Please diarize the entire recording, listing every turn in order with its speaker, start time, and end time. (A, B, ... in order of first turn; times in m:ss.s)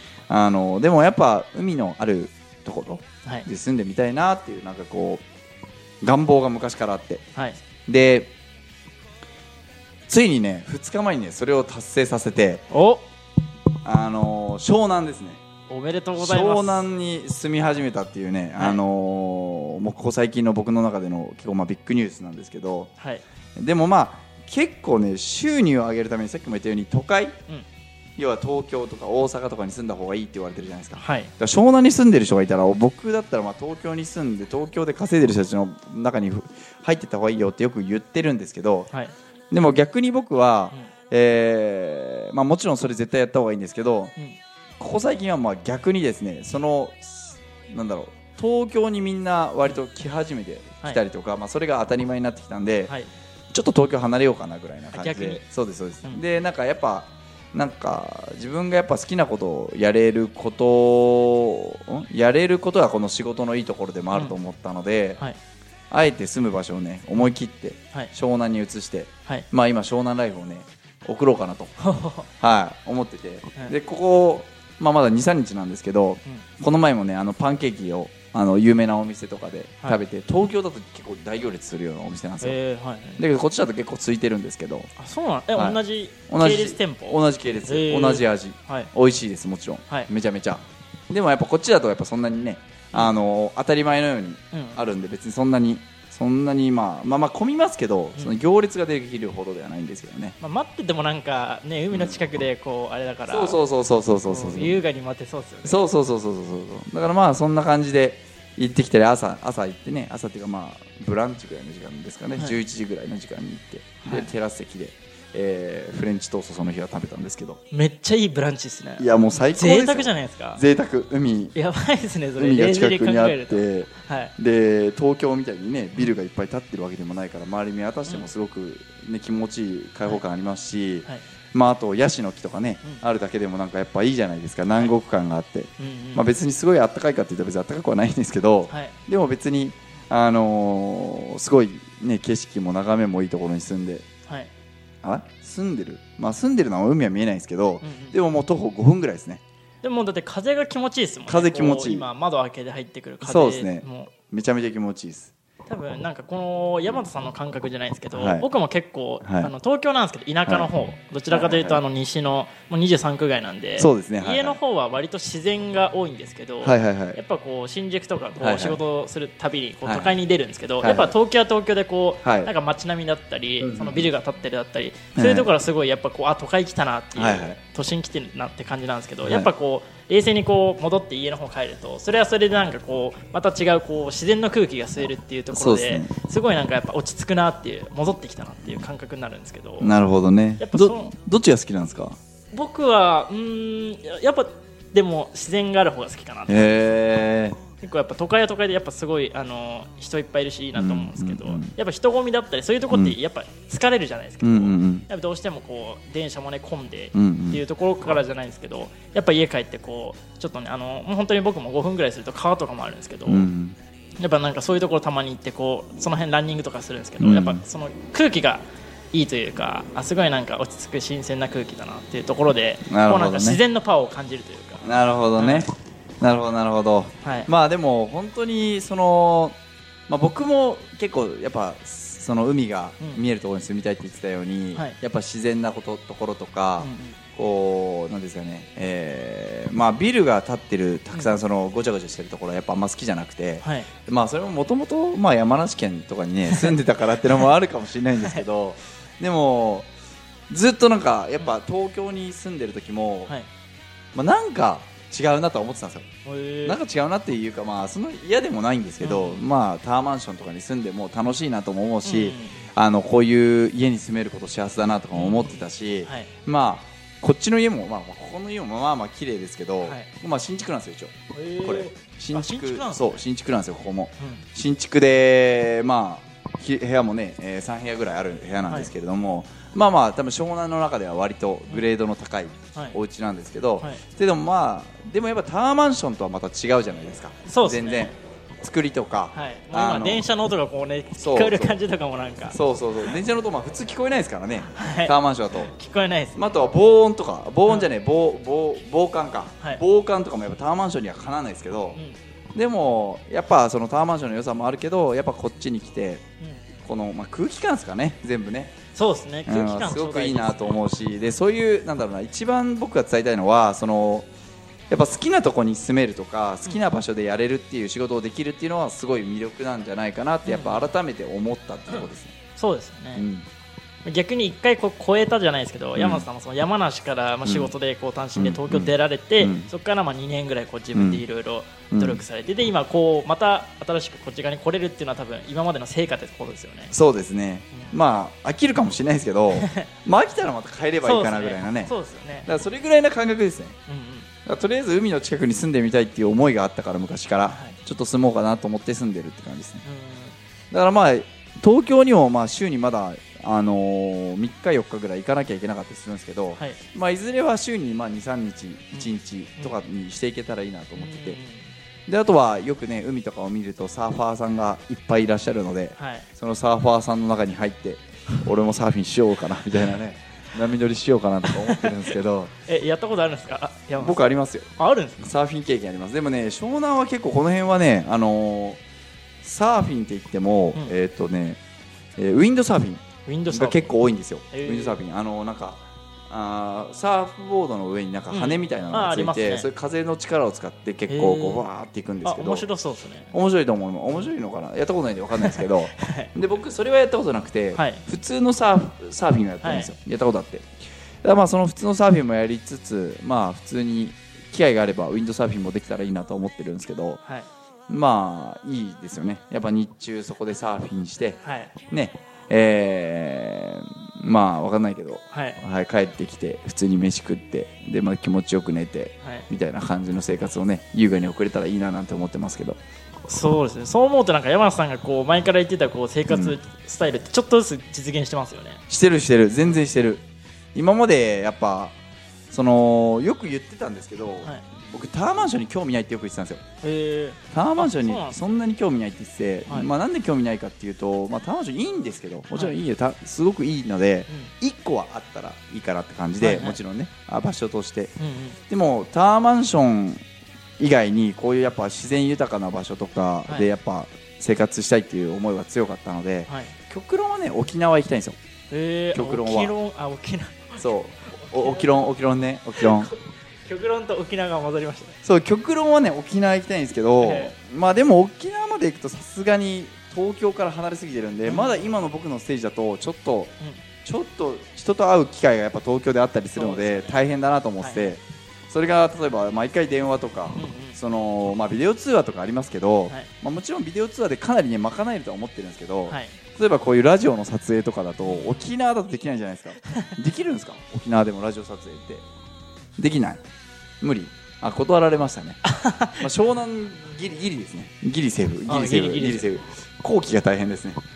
0:00.3-0:05.2 A
0:06.0-0:07.2 A
0:07.9-0:08.3 A
0:10.1-0:12.6 A
0:12.7-0:13.0 B
0:13.8-0:15.4 A
0:15.7-0:16.9 B
0:16.2-0:22.9 A
0:18.6-0:18.8 B
0:23.6-0:27.4 A
0:28.2-0:38.9 A
0:31.0-0:31.3 B
0:39.5-0:44.1 A
0:44.8-0:52.9 A
0:53.5-1:05.2 A
0:54.9-0:55.4 B
1:05.9-1:11.7 A
1:11.8-1:12.3 B
1:12.4-1:22.6 A
1:22.4-1:23.2 B
1:23.2-1:24.9 A
1:25.0-1:28.9 B
1:25.6-1:40.4 A
1:34.5-1:34.8 B
1:40.4-1:43.6 B
1:41.9-1:42.2 A
1:43.3-1:44.8 A
1:44.3-1:45.9 B
1:45.6-1:57.6 A
1:54.0-1:54.3 B
1:57.7-2:00.6 B
1:59.0-2:01.6 A
2:01.6-2:04.3 B
2:02.4-2:24.1 A
2:15.8-2:16.3 B
2:18.7-2:19.0 B
2:25.0-2:29.4 A
2:27.8-2:28.2 B
2:29.8-2:34.1 B
2:31.3-2:32.1 A
2:33.2-2:35.3 A
2:35.7-3:10.0 B
2:38.1-2:38.5 A
2:39.2-2:39.5 A
2:40.5-2:40.7 A
2:41.3-2:41.8 A
2:43.8-2:44.6 A
2:46.6-2:47.2 A
2:48.4-2:48.8 A
2:49.8-2:50.2 A
2:50.8-2:51.1 A
2:52.2-2:52.5 A
2:53.6-2:54.1 A
2:55.2-2:55.5 A
2:57.2-2:57.6 A
3:05.0-3:06.2 A
3:09.8-3:12.2 A
3:10.6-3:11.1 B
3:12.5-3:16.8 B
3:16.5-3:17.6 A
3:17.8-3:33.5 B
3:20.8-3:21.7 A
3:22.9-3:23.2 A
3:24.4-3:25.1 A
3:27.1-3:27.6 A
3:33.3-3:33.8 A
3:34.2-3:45.7 B
3:37.2-3:37.6 A
3:42.9-3:43.6 A
3:44.8-3:49.6 A
3:47.2-3:47.5 B
3:50.1-4:09.9 A
3:56.8-3:57.2 B
4:03.6-4:03.9 B
4:10.5-4:13.3 A
4:14.2-4:16.1 A
4:16.2-4:16.8 B
4:16.6-4:50.3 A
4:19.0-4:19.4 B
4:22.1-4:22.6 B
4:25.1-4:26.3 B
4:29.8-4:30.1 B
4:31.3-4:33.2 B
4:47.5-4:48.1 B
4:49.3-4:53.1 B
4:51.2-4:51.8 A
4:52.5-4:55.7 A
4:54.6-4:56.4 B
4:56.4-5:02.0 A
5:02.6-5:06.2 A
5:06.8-5:08.8 A
5:09.0-5:10.8 B
5:09.5-5:14.3 A
5:14.9-5:22.4 A
5:20.5-5:20.9 B
5:22.6-5:23.2 B
5:23.2-5:23.5 A
5:24.0-5:36.9 B
5:26.0-5:26.3 A
5:27.4-5:27.7 A
5:28.4-5:29.7 A
5:30.9-5:31.2 A
5:31.9-5:32.2 A
5:36.9-5:41.9 A
5:39.6-5:39.9 B
5:41.0-5:42.5 B
5:42.5-5:43.8 A
5:43.9-5:44.3 B
5:44.4-5:49.8 A
5:47.5-5:47.8 B
5:49.8-5:50.4 B
5:50.7-6:01.4 A
5:58.9-5:59.8 B
6:01.0-6:01.7 B
6:02.1-6:12.5 A
6:06.0-6:06.3 B
6:11.5-6:12.1 B
6:12.7-6:14.2 B
6:14.0-6:18.8 A
6:14.8-6:15.3 B
6:19.4-6:21.6 A
6:22.2-6:32.7 A
6:23.3-6:23.9 B
6:24.5-6:25.0 B
6:28.3-6:29.7 B
6:31.1-6:31.6 B
6:32.2-6:33.3 B
6:33.3-6:40.7 A
6:35.4-6:36.3 B
6:37.8-6:38.0 B
6:39.6-6:39.9 B
6:41.2-6:47.2 A
6:47.9-7:02.8 A
6:51.4-6:51.7 B
6:55.3-6:55.6 B
6:59.2-6:59.5 B
7:03.3-7:08.8 B
7:06.3-7:06.6 A
7:08.9-7:10.2 A
7:10.8-7:12.0 A
7:12.5-7:16.6 A
7:16.8-7:18.4 B
7:17.5-7:28.1 A
7:26.4-7:26.8 B
7:28.2-7:28.6 B
7:28.7-7:30.2 A
7:30.8-7:38.4 A
7:38.7-7:42.1 B
7:39.1-7:39.7 A
7:40.8-7:43.1 A
7:42.8-7:45.2 B
7:45.2-7:53.5 A
7:47.2-7:47.5 B
7:51.4-7:51.9 B
7:54.0-8:12.3 A
7:56.6-7:57.2 B
7:57.8-7:58.2 B
8:00.6-8:01.0 B
8:06.1-8:06.4 B
8:08.2-8:08.7 B
8:13.0-8:13.4 A
8:14.0-8:21.0 A
8:15.7-8:16.3 B
8:18.7-8:19.5 B